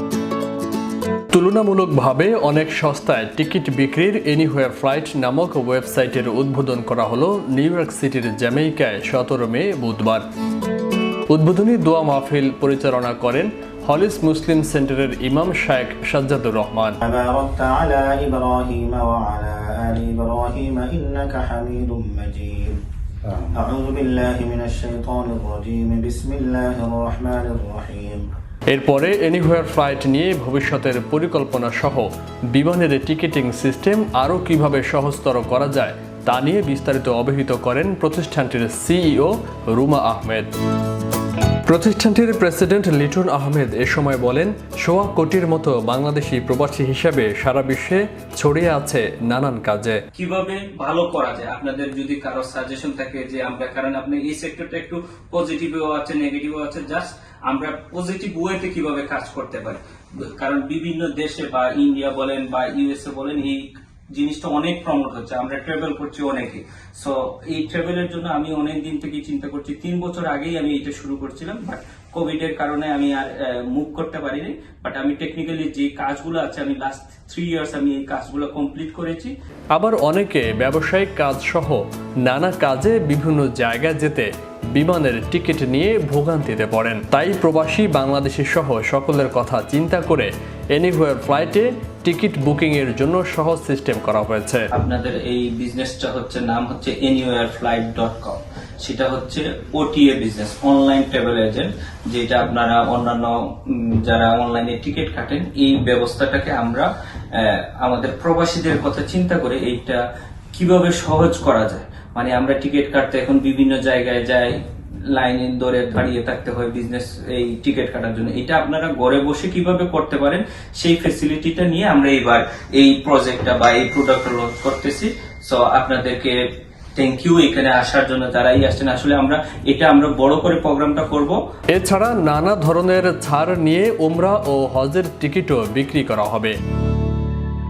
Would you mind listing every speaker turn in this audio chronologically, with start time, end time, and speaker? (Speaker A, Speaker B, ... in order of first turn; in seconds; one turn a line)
Speaker A: 1.3-10.2
Speaker A: 11.3-17.0
Speaker B: 17.1-22.8
Speaker B: 23.5-28.2
Speaker A: 28.7-40.5
Speaker A: 41.7-50.0
Speaker C: 50.1-79.3
Speaker A: 79.7-94.7
Speaker C: 94.7-110.0
Speaker C: 110.5-114.6
Speaker C: 115.1-126.4
Speaker C: 127.0-131.4
Speaker A: 131.7-136.6